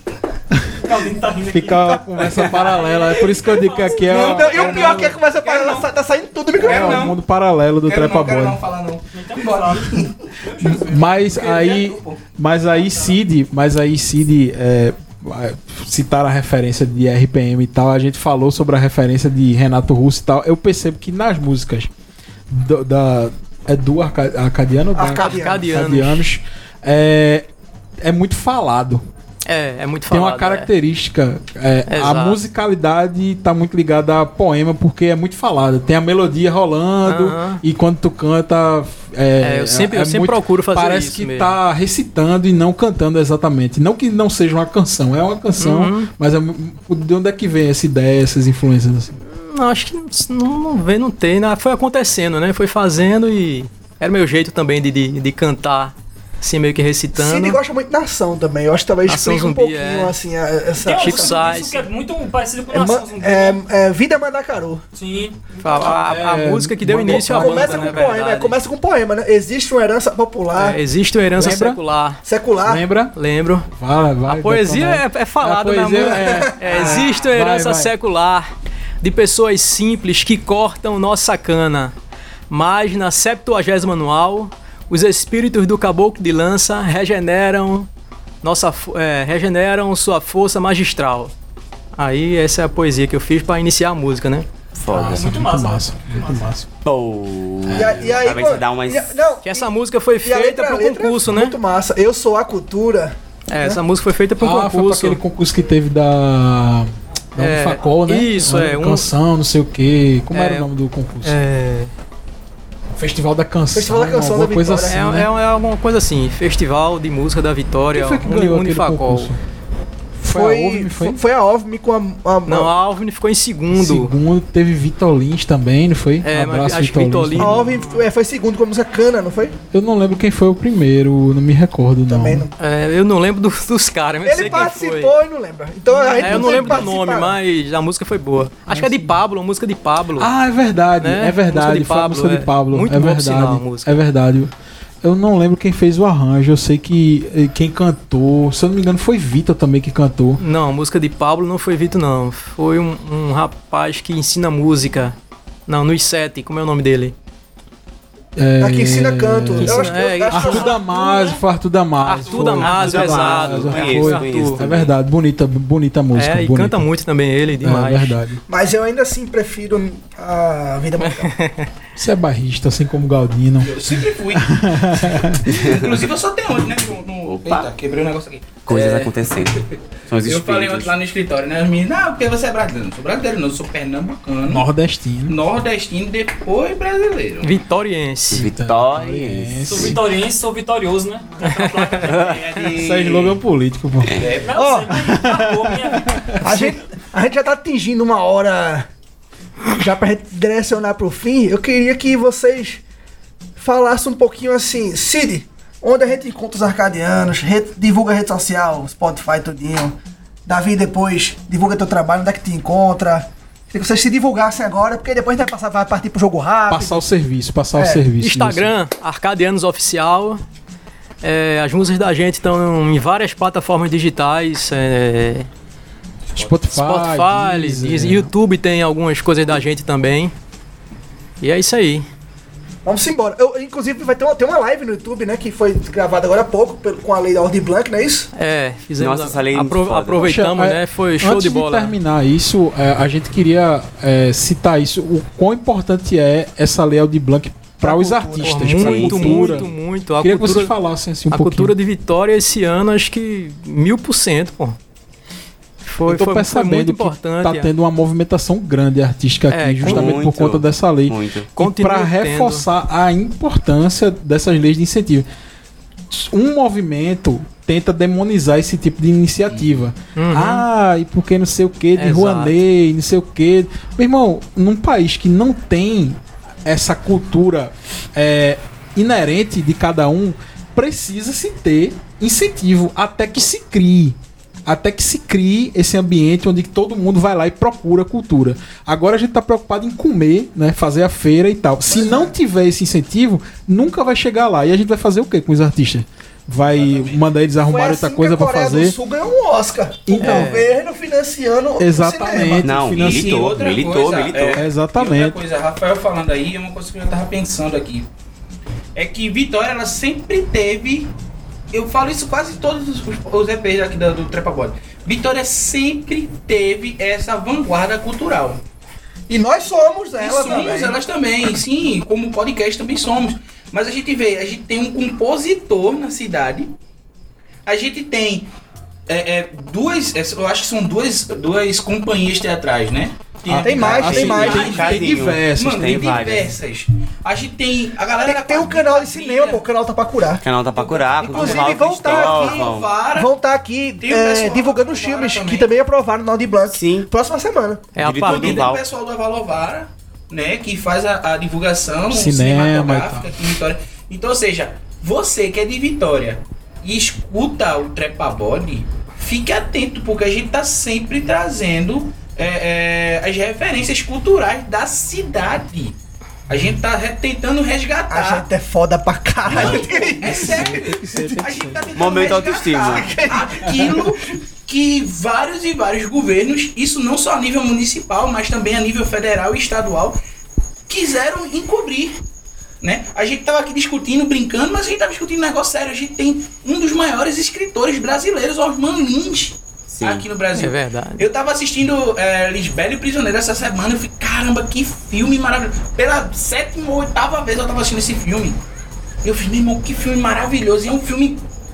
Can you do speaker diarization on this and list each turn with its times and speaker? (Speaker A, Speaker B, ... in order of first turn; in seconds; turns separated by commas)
Speaker A: 0.5-0.8, Speaker B: 0.8-5.2, Speaker A: 1.5-5.1, Speaker C: 4.1-5.9, Speaker D: 4.1-7.1, Speaker A: 6.6-8.6, Speaker C: 6.6-7.2, Speaker C: 7.8-10.3, Speaker B: 9.1-11.7, Speaker A: 10.6-21.9, Speaker C: 11.3-12.2, Speaker B: 12.8-13.1, Speaker A: 22.5-27.4, Speaker D: 24.9-25.7, Speaker E: 25.2-26.3, Speaker A: 28.0-29.0, Speaker E: 29.4-30.7, Speaker A: 30.1-49.2, Speaker E: 31.9-32.4, Speaker E: 37.1-37.6, Speaker E: 39.4-41.5, Speaker E: 45.6-46.1, Speaker E: 49.2-57.6, Speaker D: 57.2-61.4, Speaker E: 59.0-60.1, Speaker B: 60.8-63.6, Speaker E: 61.0-61.9, Speaker D: 62.7-64.8, Speaker B: 64.9-66.1, Speaker E: 65.6-68.6, Speaker A: 65.9-68.1, Speaker D: 67.1-70.8, Speaker E: 70.6-72.2, Speaker A: 71.4-71.8, Speaker D: 72.2-72.8, Speaker A: 72.6-73.1, Speaker E: 73.1-73.7, Speaker A: 73.7-77.9, Speaker E: 74.3-78.5, Speaker D: 76.2-77.1, Speaker E: 79.0-81.9, Speaker E: 82.5-87.9, Speaker E: 88.4-91.3, Speaker E: 92.0-94.5, Speaker F: 94.8-95.3, Speaker A: 94.9-96.7, Speaker B: 94.9-96.5, Speaker F: 96.8-99.2, Speaker A: 97.6-98.3, Speaker D: 97.7-99.7, Speaker E: 99.5-101.6, Speaker D: 100.2-103.8, Speaker E: 103.5-105.2, Speaker A: 104.4-111.4, Speaker E: 107.4-109.1, Speaker E: 110.3-110.7, Speaker E: 111.2-111.9, Speaker A: 113.0-115.3, Speaker D: 113.7-115.0, Speaker E: 114.9-119.3, Speaker A: 117.9-119.4, Speaker A: 120.2-121.2, Speaker D: 120.3-122.7, Speaker E: 122.5-124.1, Speaker A: 123.7-127.8, Speaker E: 126.2-128.0, Speaker D: 127.4-129.6, Speaker A: 129.7-132.5, Speaker D: 132.1-132.5, Speaker E: 132.6-135.1, Speaker D: 134.2-137.4, Speaker E: 136.2-140.3, Speaker A: 136.2-136.9, Speaker A: 138.7-139.2, Speaker A: 140.2-150.4, Speaker E: 141.0-144.0, Speaker E: 150.4-155.2, Speaker E: 155.7-157.1, Speaker A: 158.4-166.9, Speaker D: 158.6-160.8, Speaker E: 159.6-160.8, Speaker C: 161.1-161.4, Speaker E: 162.1-164.6, Speaker C: 162.2-163.3, Speaker F: 162.7-164.9, Speaker E: 166.1-168.2, Speaker A: 167.6-168.4, Speaker D: 168.5-171.3, Speaker E: 171.0-171.7, Speaker A: 171.9-175.7, Speaker C: 173.6-179.2, Speaker F: 175.5-175.9, Speaker F: 177.3-177.7, Speaker F: 178.6-180.9, Speaker C: 180.2-184.6, Speaker A: 184.5-185.4, Speaker C: 185.3-187.6, Speaker E: 187.4-188.5, Speaker F: 188.3-189.9, Speaker A: 188.3-190.0, Speaker B: 189.6-192.4, Speaker E: 191.4-192.0, Speaker C: 192.0-193.4, Speaker F: 192.1-192.3, Speaker A: 192.7-194.2, Speaker C: 194.1-194.6, Speaker B: 194.4-196.6, Speaker D: 194.5-195.0, Speaker A: 194.9-196.7, Speaker D: 196.4-198.9, Speaker D: 199.7-202.8, Speaker D: 203.6-217.0, Speaker A: 216.7-218.7, Speaker D: 217.7-218.1, Speaker E: 218.2-220.4, Speaker E: 221.2-225.5, Speaker A: 226.3-228.3, Speaker E: 226.7-230.3, Speaker E: 231.4-232.1, Speaker D: 232.8-238.3, Speaker E: 238.3-241.9, Speaker F: 239.0-240.3, Speaker A: 240.2-251.7, Speaker D: 247.8-249.7, Speaker E: 248.4-250.7, Speaker E: 251.3-254.8, Speaker E: 255.8-257.7, Speaker A: 256.1-265.3, Speaker E: 259.5-260.2, Speaker F: 259.8-261.5, Speaker E: 261.6-262.7, Speaker A: 266.1-299.0, Speaker C: 269.5-269.8, Speaker E: 270.1-270.7, Speaker E: 271.9-272.6, Speaker D: 291.9-292.3, Speaker C: 296.7-297.2, Speaker D: 297.6-302.7, Speaker A: 300.1-300.6, Speaker E: 300.2-300.7, Speaker A: 301.8-303.6, Speaker F: 302.6-304.6, Speaker C: 302.9-308.1, Speaker A: 304.5-305.4, Speaker C: 308.9-311.1, Speaker C: 311.7-318.6, Speaker D: 319.3-321.0, Speaker C: 320.2-326.7, Speaker C: 327.7-328.5, Speaker C: 329.1-339.6, Speaker A: 333.5-336.4, Speaker D: 333.6-334.8, Speaker F: 333.9-336.6, Speaker D: 338.2-340.4, Speaker F: 340.4-342.9, Speaker C: 340.8-343.3, Speaker D: 341.2-347.9, Speaker C: 344.0-345.7, Speaker F: 346.7-347.1, Speaker E: 347.9-348.7, Speaker F: 348.0-348.8, Speaker C: 348.2-366.0, Speaker A: 352.1-353.3, Speaker C: 366.5-368.5, Speaker D: 368.1-370.8, Speaker A: 369.5-371.9, Speaker F: 369.5-369.9, Speaker C: 369.6-380.2, Speaker F: 371.9-373.2, Speaker D: 373.0-374.1, Speaker C: 380.9-382.2, Speaker C: 382.8-398.6, Speaker F: 389.9-390.3, Speaker E: 390.6-391.2, Speaker C: 399.2-401.4